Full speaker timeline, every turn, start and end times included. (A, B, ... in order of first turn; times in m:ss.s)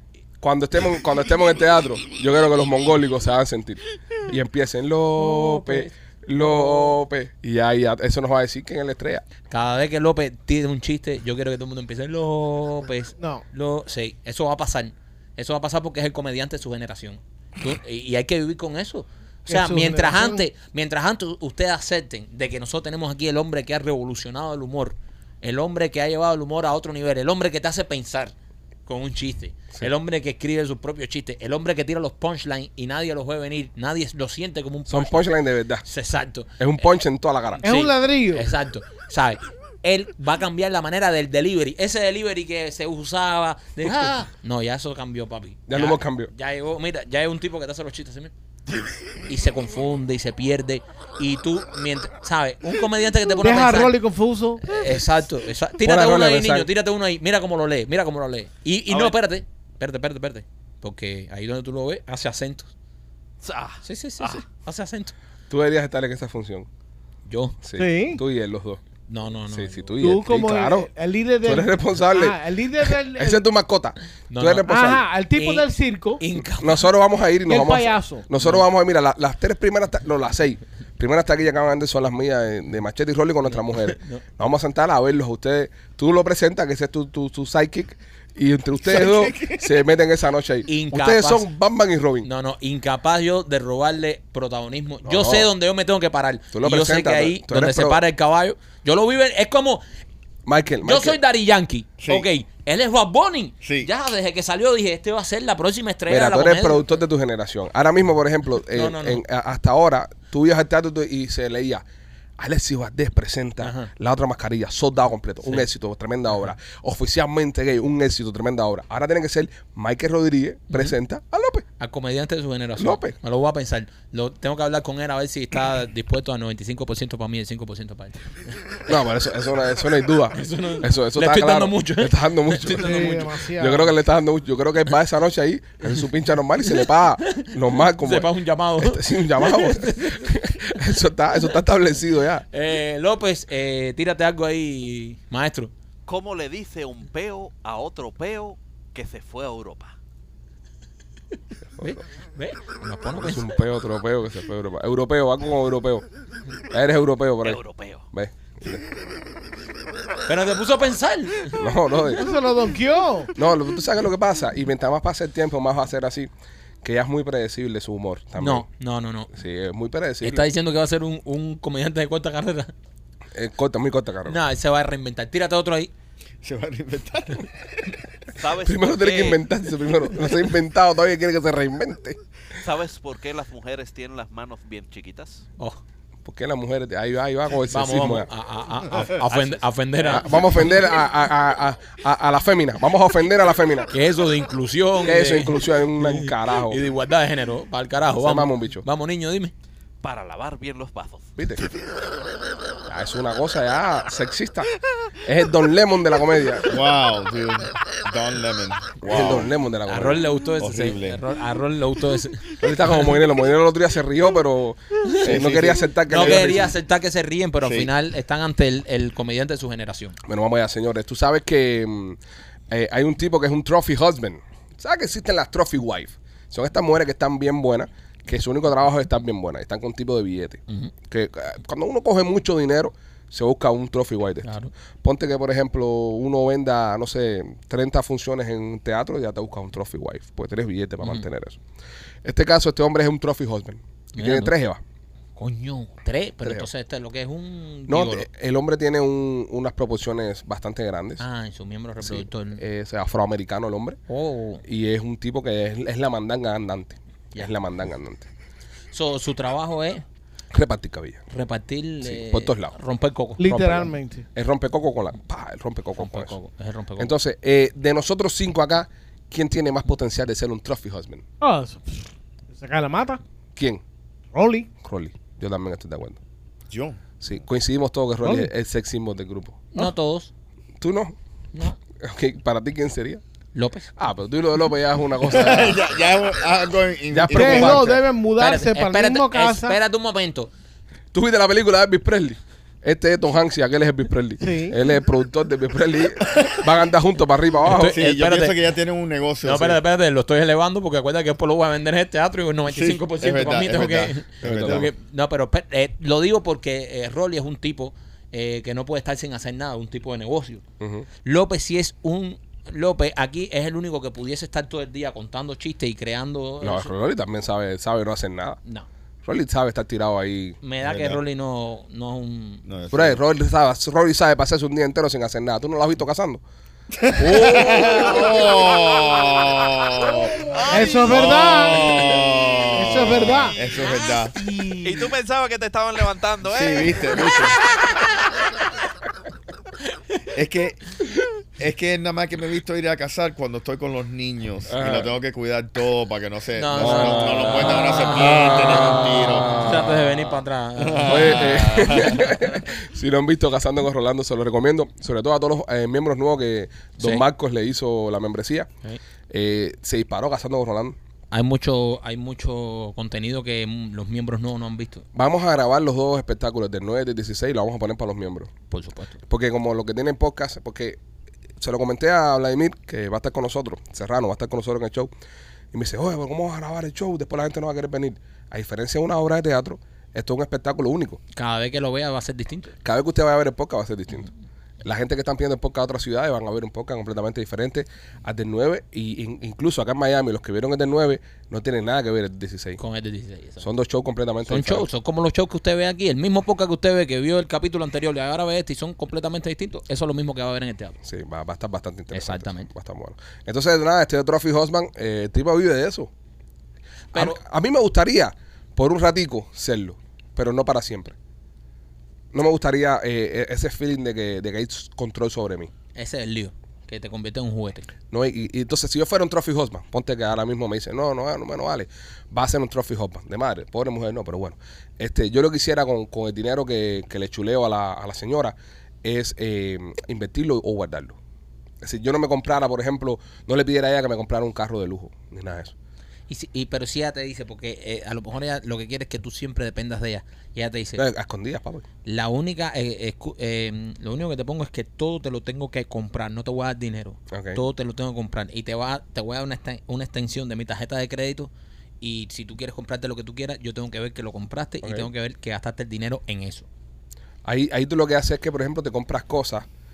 0:00.4-0:09.2 A
0:05.2-0:07.0 B
0:09.5-0:28.3 B
0:19.5-0:20.4 C
0:28.9-0:35.2 B
0:34.9-0:35.9 A
0:35.9-0:36.8 B
0:36.6-0:37.6 A
0:37.6-0:48.3 B
0:37.6-0:38.5 C
0:45.7-0:46.3 A
0:49.3-0:54.0 B
0:53.4-0:54.8 C
0:54.6-1:02.7 B
0:55.8-0:56.7 A
0:58.9-0:59.2 D
1:03.4-1:04.4 D
1:03.8-1:05.1 B
1:05.5-1:06.7 A
1:07.3-1:07.6 B
1:07.6-1:08.8 A
1:07.8-1:08.2 C
1:09.1-1:09.8 B
1:09.5-1:10.9 A
1:10.0-1:13.4 C
1:11.4-1:15.0 A
1:14.3-1:14.7 B
1:14.7-1:16.2 C
1:15.4-1:15.7 B
1:16.2-1:16.9 B
1:16.6-1:32.3 A
1:17.5-1:18.3 C
1:18.4-1:18.6 B
1:23.5-1:24.2 B
1:28.9-1:29.7 E
1:30.7-1:31.5 B
1:32.2-1:39.8 B
1:35.0-1:35.5 A
1:36.5-1:38.0 A
1:40.5-1:41.2 A
1:40.8-1:46.8 B
1:42.0-1:42.3 E
1:43.6-1:43.9 E
1:46.1-1:51.8 A
1:48.7-1:49.2 B
1:52.4-2:01.7 A
1:53.6-1:53.9 B
2:00.7-2:01.0 B
2:01.8-2:08.8 B
2:02.8-2:03.2 A
2:08.9-2:22.4 A
2:10.3-2:13.4 B
2:12.8-2:13.9 C
2:16.7-2:20.4 B
2:22.5-2:25.7 B
2:26.1-2:29.9 D
2:31.8-2:33.5 B
2:33.2-2:36.1 A
2:36.7-2:38.9 A
2:37.4-2:38.1 D
2:40.3-2:41.6 B
2:41.5-2:42.3 A
2:42.1-2:43.3 C
2:43.4-2:46.3 A
2:46.8-2:48.7 A
2:48.4-2:49.3 B
2:49.3-2:50.5 A
2:50.2-2:52.7 B
2:53.3-2:54.4 A
2:54.3-2:55.9 B
2:56.4-2:57.5 E
2:58.4-2:59.4 D
2:58.6-3:02.2 A
3:02.6-3:05.4 D
3:06.2-3:08.3 A
3:07.7-3:10.8 B
3:09.3-3:09.6 D
3:10.0-3:13.9 A
3:13.9-3:19.5 B
3:15.0-3:16.8 A
3:18.2-3:18.8 A
3:20.0-3:21.3 D
3:21.4-3:21.7 A
3:22.9-3:24.7 A
3:25.2-3:26.8 A
3:26.7-3:29.5 E
3:29.0-3:30.2 A
3:29.9-3:33.1 B
3:30.6-3:31.2 E
3:32.6-3:36.7 A
3:35.0-3:35.3 B
3:35.2-3:36.6 E
3:36.1-3:40.2 B
3:37.6-3:37.9 E
3:40.2-3:42.2 A
3:42.7-3:54.5 A
3:54.4-3:54.7 B
3:55.0-4:01.6 A
4:02.2-4:04.8 A
4:04.2-4:04.5 B
4:05.4-4:08.3 B
4:06.4-4:06.7 A
4:07.9-4:11.2 A
4:11.2-4:12.6 B
4:12.0-4:14.0 A
4:14.1-4:14.6 B
4:14.6-4:18.3 A
4:18.9-4:20.0 B
4:20.5-4:21.2 A
4:21.3-4:23.9 B
4:22.0-4:22.7 A
4:23.4-4:24.2 C
4:24.4-4:26.4 A
4:26.0-4:27.1 B
4:27.0-4:31.2 A
4:31.4-4:33.2 C
4:33.6-4:33.8 A
4:34.3-4:34.7 C
4:34.8-4:36.2 A
4:36.7-4:37.0 E
4:37.2-4:39.6 A
4:38.2-4:38.5 C
4:39.7-4:40.3 B
4:40.8-4:41.2 A
4:42.0-4:43.2 A
4:43.6-4:43.9 B
4:44.0-4:45.9 A
4:45.3-4:47.9 E
4:47.1-4:48.0 A
4:47.3-4:49.8 C
4:48.4-4:50.5 B
4:51.1-4:58.0 A
4:54.4-4:54.8 C
4:57.7-4:58.6 B
4:57.8-4:59.8 E
4:59.4-5:10.6 B
5:02.7-5:04.9 E
5:04.4-5:04.9 A
5:10.8-5:11.1 A
5:11.2-5:16.9 B
5:16.6-5:18.6 A
5:19.2-5:20.6 A
5:20.6-5:22.6 B
5:20.8-5:21.2 E
5:22.7-5:23.2 E
5:22.9-5:26.4 A
5:26.9-5:30.5 E
5:27.4-5:27.7 A
5:27.4-5:28.3 B
5:30.4-5:31.2 D
5:30.7-5:32.2 C
5:31.0-5:34.4 E
5:32.7-5:33.5 C
5:33.3-5:34.2 D
5:34.0-5:35.1 B
5:34.8-5:37.5 D
5:36.5-5:37.6 E
5:40.3-5:40.8 E
5:41.6-5:49.7 E
5:44.7-5:45.1 A
5:46.6-5:52.3 B
5:46.8-5:50.2 A
5:50.8-5:52.2 E
5:51.0-5:58.7 A
5:57.0-5:57.2 B
5:59.3-6:01.0 A
6:01.3-6:05.0 B
6:05.2-6:08.5 A
6:08.7-6:09.2 B
6:09.3-6:11.0 A
6:11.6-6:15.1 A
6:15.7-6:21.2 A
6:21.4-6:22.8 B
6:22.8-6:24.3 A
6:24.8-6:32.8 A
6:32.8-6:33.7 B
6:33.6-6:34.9 A
6:34.5-6:41.0 B
6:41.0-6:46.1 A
6:42.1-6:42.7 B
6:47.1-6:47.4 B
6:47.1-6:51.2 A
6:52.3-6:55.7 A
6:56.0-6:57.9 B
6:58.1-7:11.2 A
7:11.8-7:15.7 A
7:16.3-7:21.0 B
7:21.0-7:21.9 A
7:22.0-7:31.5 B
7:27.3-7:27.6 A
7:32.0-7:36.7 B
7:34.8-7:35.1 A
7:37.4-7:39.7 A